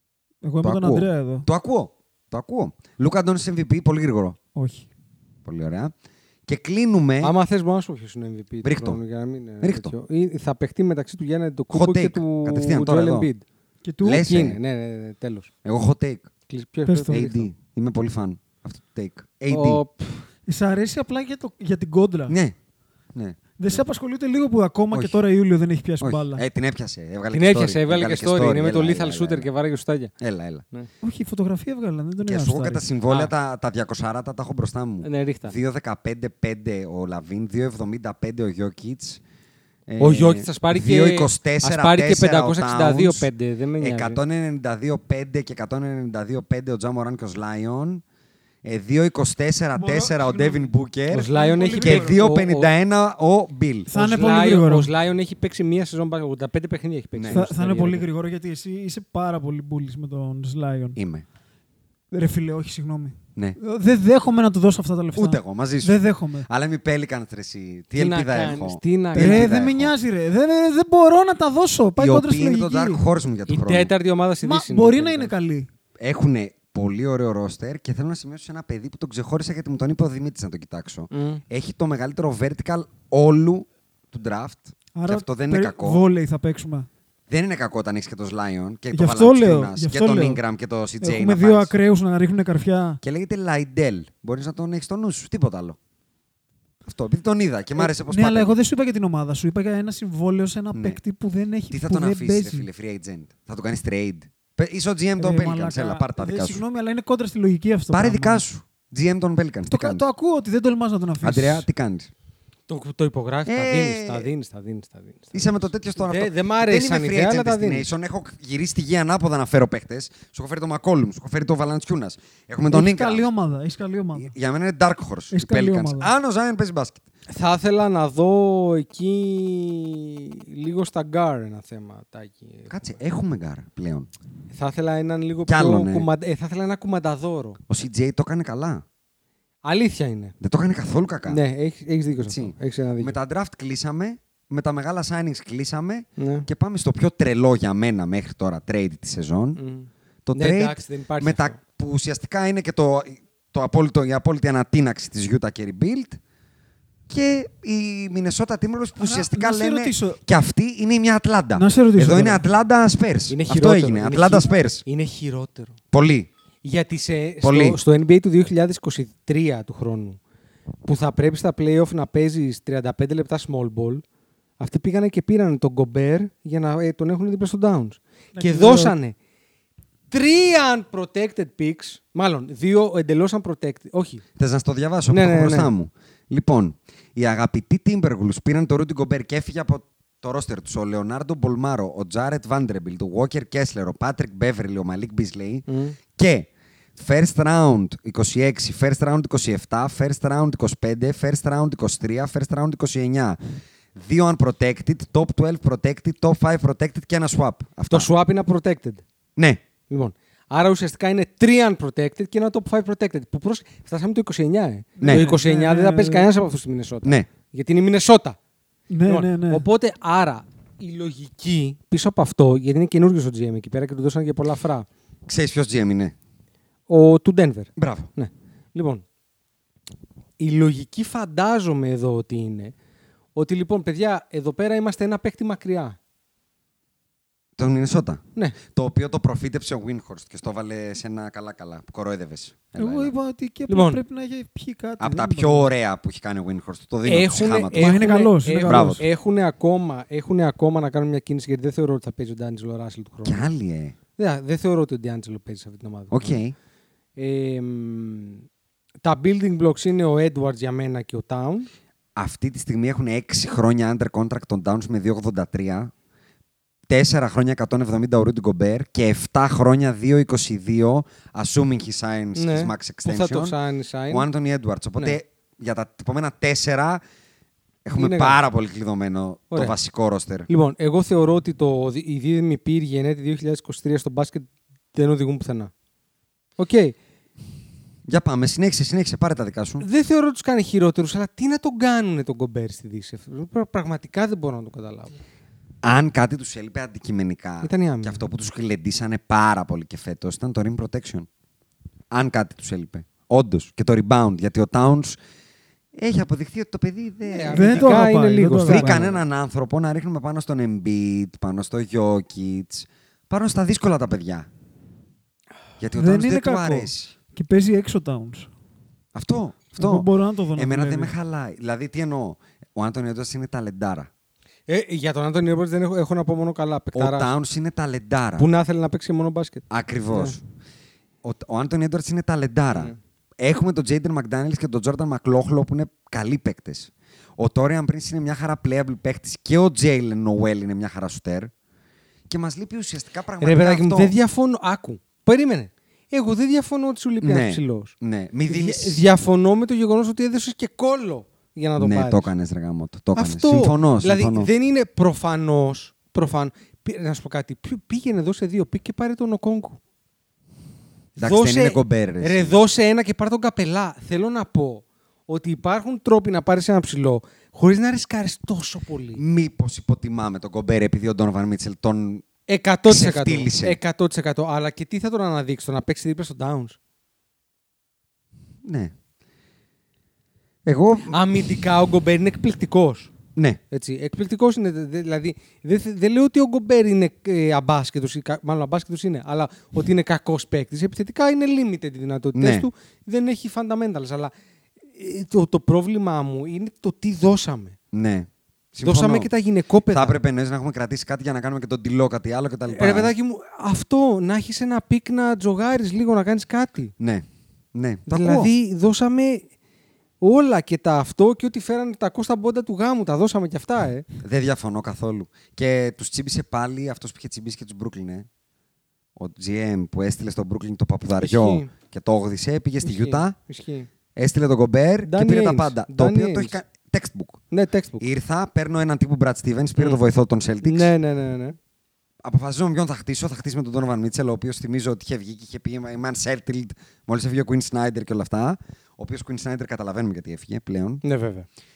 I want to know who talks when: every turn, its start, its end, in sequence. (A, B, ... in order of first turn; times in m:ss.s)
0:00.4-0:01.5 A
0:00.6-0:04.4 B
0:04.6-0:04.9 A
0:05.4-0:05.9 B
0:06.5-0:07.3 B
0:07.2-0:13.4 C
0:08.6-0:09.0 B
0:09.6-0:09.9 B
0:11.7-0:13.3 B
0:13.8-0:14.3 A
0:14.0-0:14.6 B
0:14.1-0:15.5 C
0:15.6-0:16.3 B
0:16.5-0:17.5 C
0:16.9-0:17.3 A
0:17.1-0:19.8 B
0:19.5-0:20.3 C
0:20.5-0:22.4 A
0:22.3-0:22.6 B
0:23.2-0:23.5 B
0:23.6-0:26.4 A
0:24.9-0:25.2 B
0:26.0-0:29.5 B
0:27.3-0:30.1 C
0:30.2-0:30.6 B
0:31.0-0:32.8 A
0:32.2-0:39.2 B
0:35.0-0:35.6 C
0:39.9-0:48.0 B
0:40.0-0:44.2 C
0:48.6-0:53.9 B
0:49.8-0:52.2 A
0:51.1-0:52.7 C
0:53.9-0:54.9 A
0:53.9-0:58.1 C
0:57.2-0:57.4 B
0:57.3-1:01.0 A
1:01.0-1:01.2 B
1:02.1-1:06.5 A
1:05.2-1:09.9 B
1:08.0-1:09.5 C
1:09.1-1:13.0 A
1:12.0-1:13.9 B
1:13.5-1:15.3 C
1:14.4-1:15.7 A
1:16.0-1:26.0 B
1:21.1-1:21.4 C
1:25.0-1:26.9 A
1:27.3-1:31.7 B
1:28.9-1:30.4 A
1:31.0-1:33.0 A
1:33.0-1:35.8 B
1:36.8-1:38.6 B
1:37.8-1:42.7 A
1:40.7-1:41.0 B
1:41.7-1:46.6 B
1:45.2-1:48.4 A
1:47.9-1:50.1 B
1:49.7-1:51.7 A
1:51.2-1:52.1 B
1:52.7-1:57.9 C
1:53.5-1:54.3 B
1:55.3-2:03.2 B
2:02.7-2:04.3 A
2:04.2-2:07.0 B
2:05.3-2:06.1 A
2:07.3-2:12.8 C
2:12.7-2:14.1 B
2:14.5-2:17.6 C
2:15.5-2:16.1 B
2:17.7-2:18.8 B
2:19.6-2:20.4 C
2:20.4-2:21.4 B
2:21.3-2:23.2 C
2:22.3-2:29.6 B
2:26.2-2:26.5 C
2:29.6-2:31.6 C
2:30.3-2:36.2 B
2:37.1-2:44.8 B
2:39.0-2:40.2 A
2:41.6-2:42.4 A
2:43.3-2:45.8 C
2:45.9-2:46.3 B
2:46.6-2:50.2 C
2:47.4-2:47.8 B
2:50.8-2:54.0 C
2:54.6-2:59.2 C
2:58.4-2:59.0 A
3:00.1-3:04.2 C
3:04.4-3:23.4 B
3:05.1-3:05.7 C
3:15.7-3:16.0 C
3:24.0-3:28.1 B
3:27.9-3:29.0 C
3:29.4-3:29.6 B
3:29.9-3:38.4 C
3:35.0-3:36.3 A
3:35.0-3:35.3 B
3:37.0-3:37.3 B
3:38.9-3:39.6 A
3:39.1-3:44.9 C
3:45.3-3:46.2 B
3:46.9-3:49.0 C
3:47.8-3:48.1 B
3:50.4-3:52.8 C
3:53.4-3:56.0 C
3:57.6-4:03.1 B
4:02.7-4:05.7 A
4:03.7-4:04.0 C
4:05.0-4:08.0 B
4:07.1-4:13.5 C
4:07.8-4:09.0 A
4:08.6-4:09.0 B
4:13.2-4:14.0 B
4:14.2-4:16.4 C
4:16.1-4:16.6 B
4:17.2-4:18.5 C
4:19.0-4:21.7 C
4:22.2-4:25.9 B
4:26.9-4:33.6 B
4:32.4-4:34.3 C
4:34.1-4:37.0 B
4:37.8-4:40.5 B
4:38.0-4:38.4 C
4:39.5-4:39.8 C
4:40.5-4:45.7 C
4:46.6-4:47.0 C
4:48.1-4:49.8 B
4:49.8-4:55.2 C
4:55.8-5:01.3 B
4:57.6-4:58.2 C
5:02.1-5:05.2 B
5:06.0-5:08.1 B
5:07.3-5:09.2 C
5:07.5-5:09.0 A
5:08.6-5:14.5 B
5:15.8-5:17.1 B
5:16.0-5:18.5 A
5:19.2-5:24.1 B
5:19.8-5:21.1 A
5:24.7-5:27.3 C
5:27.0-5:28.5 B
5:28.4-5:30.4 C
5:29.7-5:30.4 B
5:31.2-5:41.5 B
5:42.3-5:44.2 B
5:43.4-5:47.9 C
5:47.2-5:49.0 B
5:48.5-5:52.3 C
5:51.8-5:54.5 B
5:53.2-5:59.8 C
6:01.2-6:02.6 B
6:01.2-6:09.2 C
6:09.2-6:12.3 B
6:12.5-6:16.8 C
6:12.8-6:13.8 B
6:18.6-6:18.9 B
6:20.7-6:21.3 B
6:21.1-6:23.1 C
6:23.7-6:34.3 C
6:32.3-6:32.7 B
6:34.9-6:37.8 C
6:37.9-6:39.3 B
6:38.8-6:40.2 C
6:39.9-6:43.1 B
6:42.7-6:46.9 C
6:47.0-6:48.5 B
6:48.1-6:49.5 C
6:50.2-6:54.1 C
6:54.2-6:58.3 B
6:59.2-7:03.4 B
7:01.2-7:01.7 C
7:02.8-7:03.9 C
7:04.2-7:07.4 B
7:05.0-7:06.6 C
7:07.5-7:08.1 C
7:08.0-7:10.9 B
7:10.6-7:11.6 C
7:12.2-7:21.0 B
7:21.0-7:21.5 C